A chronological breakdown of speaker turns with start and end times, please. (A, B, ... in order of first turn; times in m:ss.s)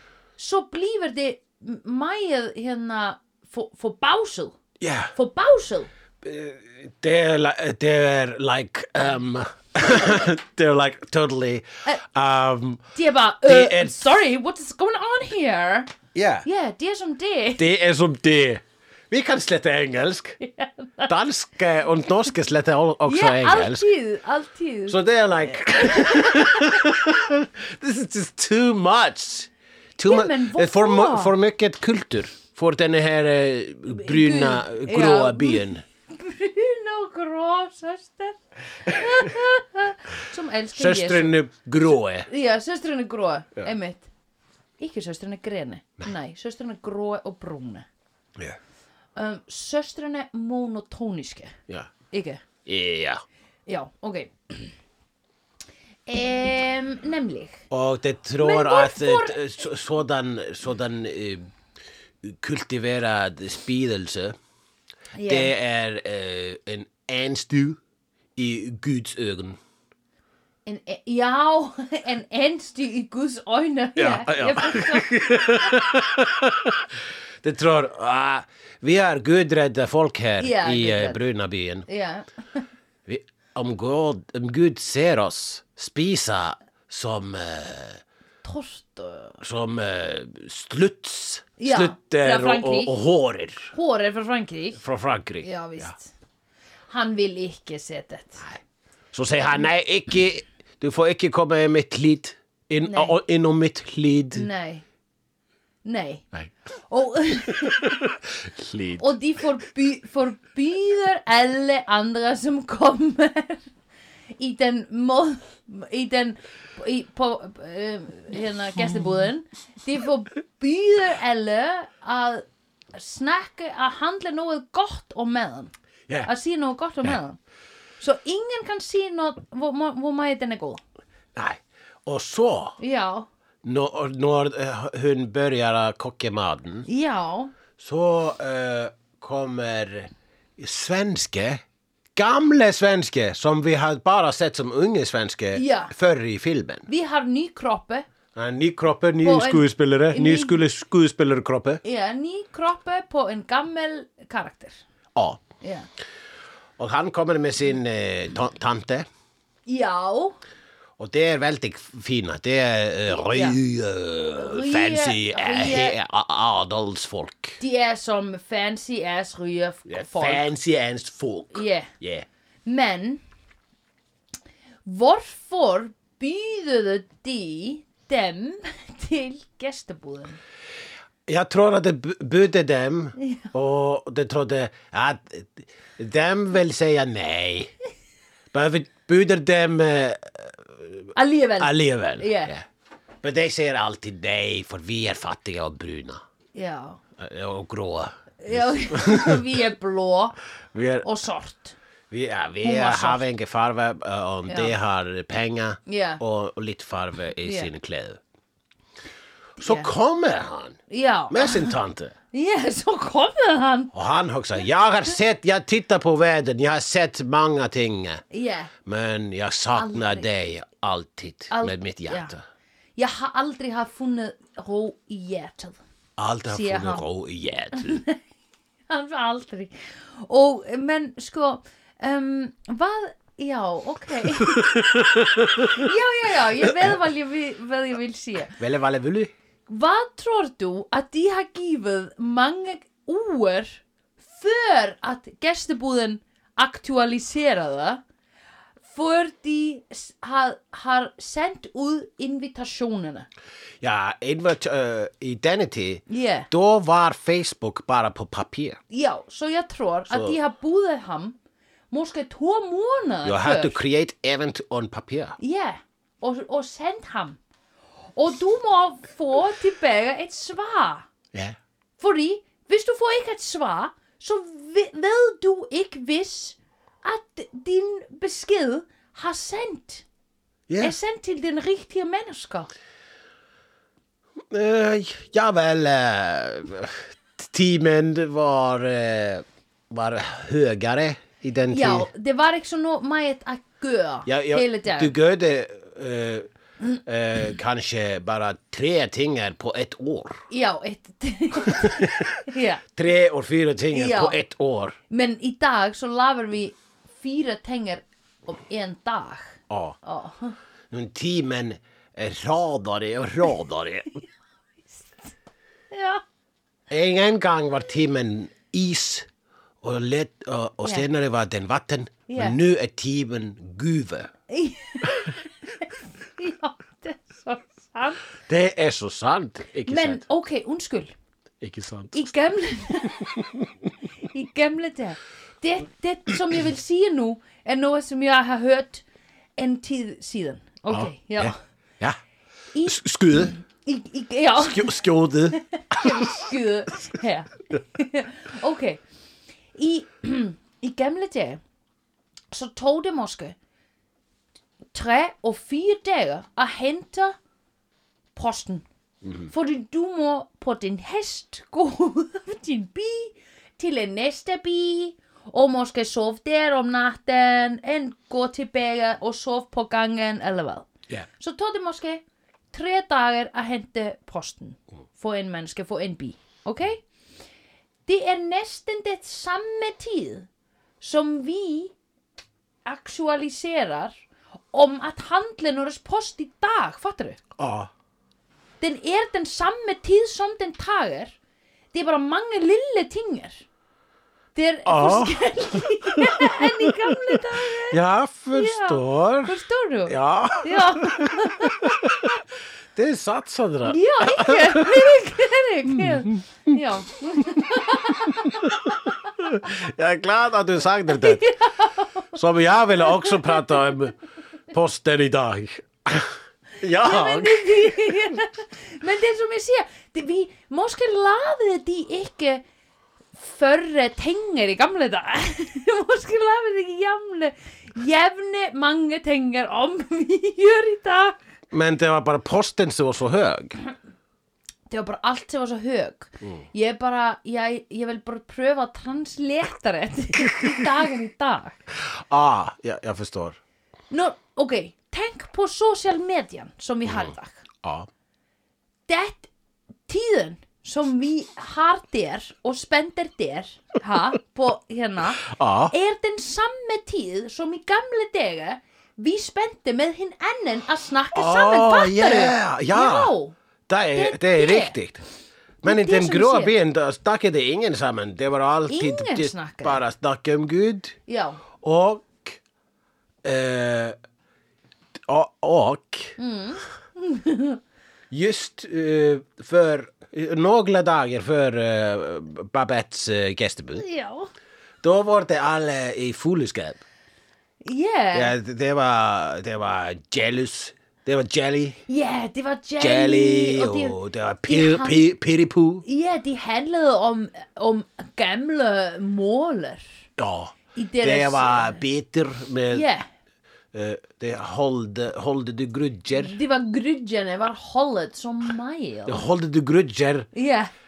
0:00.4-0:04.6 A
0:04.8-0:05.2 B
0:05.2-0:05.9 A
0:06.2-0:12.9 B
0:12.9-0:15.9 A
0:13.4-0:14.2 B
0:16.1-0:16.5 B
0:16.4-0:17.7 A
0:17.6-0:20.4 B
0:20.4-0:21.1 A
0:21.1-0:23.9 B
0:23.0-0:25.0 A
0:24.9-0:35.8 B
0:25.7-0:26.8 A
0:30.1-0:31.3 A
0:33.9-0:41.4 A
0:40.8-0:42.3 B
0:42.3-0:44.1 A
0:44.8-0:47.9 A
0:49.2-0:51.6 A
0:52.1-0:52.4 A
0:52.7-0:53.2 B
0:53.7-0:54.7 A
0:56.1-0:57.6 A
0:57.7-1:01.5 B
0:58.4-0:59.4 A
1:02.2-1:04.4 B
1:05.2-1:05.5 A
1:05.2-1:07.8 B
1:08.4-1:09.6 B
1:10.6-1:15.8 A
1:14.0-1:21.9 B
1:20.4-1:21.2 A
1:21.9-1:22.7 A
1:23.1-1:28.0 B
1:28.4-1:29.4 A
1:29.4-1:33.7 B
1:31.6-1:33.0 A
1:33.7-1:34.8 A
1:34.8-1:35.9 B
1:35.4-1:36.1 A
1:36.9-1:38.5 A
1:39.1-1:44.5 B
1:42.8-1:43.2 A
1:44.3-1:44.8 A
1:45.8-1:46.3 A
1:46.9-1:48.0 A
1:47.6-1:49.2 B
1:49.0-1:53.7 A
1:54.4-2:05.7 A
2:06.2-2:07.4 A
2:08.0-2:10.8 A
2:11.4-2:12.8 B
2:12.8-2:13.3 A
2:13.6-2:16.9 B
2:16.9-2:17.5 A
2:17.8-2:21.6 B
2:22.2-2:26.9 B
2:25.5-2:25.9 A
2:26.9-2:28.1 A
2:28.4-2:31.8 B
2:29.2-2:30.6 A
2:31.8-2:34.8 A
2:35.2-2:35.4 B
2:35.6-2:35.9 A
2:36.8-2:39.1 B
2:39.7-2:40.4 A
2:41.0-2:47.6 B
2:43.1-2:43.6 A
2:44.4-2:46.0 A
2:47.6-2:50.5 A
2:49.9-2:52.3 B
2:51.5-2:51.9 A
2:52.7-2:53.2 A
2:54.8-3:00.4 A
3:01.3-3:07.7 B
3:03.2-3:03.5 A
3:08.5-3:12.6 B
3:11.2-3:12.5 A
3:13.2-3:16.2 B
3:16.6-3:17.0 A
3:17.2-3:19.4 B
3:18.4-3:20.4 A
3:20.7-3:21.1 B
3:21.0-3:21.8 A
3:22.1-3:28.2 B
3:22.6-3:23.2 A
3:24.5-3:24.7 A
3:25.9-3:26.2 A
3:27.4-3:27.7 A
3:29.6-3:29.9 A
3:29.6-3:30.8 B
3:30.9-3:31.7 A
3:31.3-3:32.1 B
3:32.3-3:33.9 A
3:33.9-3:38.2 B
3:38.3-3:38.7 A
3:38.8-3:42.4 B
3:39.8-3:40.3 A
3:41.5-3:42.3 A
3:43.0-3:45.8 A
3:46.2-3:48.0 B
3:46.5-3:47.0 A
3:47.8-3:48.2 A
3:48.9-3:54.8 A
3:54.5-3:55.8 B
3:55.6-3:58.6 A
3:58.6-3:59.3 B
3:59.7-4:08.0 A
4:08.8-4:13.3 A
4:13.8-4:18.8 B
4:16.1-4:16.5 A
4:18.9-4:21.4 A
4:20.1-4:20.4 B
4:21.9-4:23.8 A
4:23.2-4:25.4 B
4:25.4-4:27.4 A
4:28.2-4:31.1 A
4:32.0-4:40.0 A
4:40.7-4:40.9 B
4:40.8-4:42.7 A
4:44.5-4:52.1 B
4:51.7-4:55.1 A
4:54.3-4:56.5 B
4:57.0-5:00.4 B
5:00.5-5:02.8 A
5:01.7-5:05.0 B
5:03.9-5:04.4 A
5:05.1-5:10.6 A
5:09.7-5:10.0 B
5:10.9-5:14.2 B
5:15.9-5:16.2 A
5:16.9-5:19.3 B
5:19.8-5:24.3 B
5:22.3-5:22.6 A
5:24.5-5:28.2 A
5:28.5-5:30.2 B
5:29.9-5:31.1 A
5:31.6-5:32.3 B
5:32.1-5:33.3 A
5:33.2-5:33.7 B
5:34.3-5:39.0 A
5:39.6-5:41.6 A
5:40.9-5:42.2 B
5:42.7-5:43.0 A
5:42.8-5:43.6 B
5:43.5-5:49.0 A
5:44.6-5:46.5 B
5:49.8-5:51.6 A
5:52.5-5:53.6 A
5:54.9-5:57.4 A
5:58.4-5:58.9 A
5:59.2-5:59.5 B
5:59.5-6:10.9 A
6:11.4-6:17.0 A
6:18.1-6:20.5 A
6:21.0-6:21.9 A
6:22.8-6:24.2 A
6:24.7-6:27.4 A
6:27.6-6:27.9 B
6:28.8-6:31.4 A
6:31.9-6:33.7 A
6:34.6-6:38.0 A
6:34.8-6:39.5 B
6:38.5-6:42.0 A
6:40.1-6:42.4 B
6:42.9-6:45.2 B
6:43.8-6:48.7 A
6:45.9-6:46.3 B
6:48.3-6:51.5 B
6:51.2-6:52.3 A
6:52.3-6:54.2 B
6:53.1-6:53.7 A
6:54.7-6:58.3 B
6:56.9-7:02.6 A
7:03.4-7:11.4 A
7:11.7-7:13.8 B
7:14.9-7:21.8 A
7:21.9-7:23.6 B
7:24.1-7:27.7 A
7:27.1-7:28.1 B
7:29.1-7:29.5 A
7:30.1-7:43.6 A
7:35.4-7:35.9 B
7:41.3-7:43.3 B
7:43.9-7:45.2 B
7:44.1-7:45.0 A
7:45.8-7:51.2 B
7:45.8-7:46.7 A
7:48.9-7:50.0 A
7:51.3-7:51.6 A
7:51.8-7:52.6 B
7:53.4-7:54.2 B
7:55.3-7:56.4 B
7:56.4-7:57.8 A
7:58.3-8:04.0 B
8:04.0-8:04.5 A
8:05.0-8:07.0 B
8:07.8-8:08.6 A
8:08.3-8:12.0 B
8:12.1-8:15.3 A
8:13.0-8:16.0 B
8:16.0-8:20.1 A
8:20.4-8:23.1 B
8:20.9-8:22.0 A
8:22.9-8:23.3 A
8:23.9-8:26.6 B
8:26.3-8:29.4 A
8:29.3-8:30.5 B
8:30.5-8:30.9 A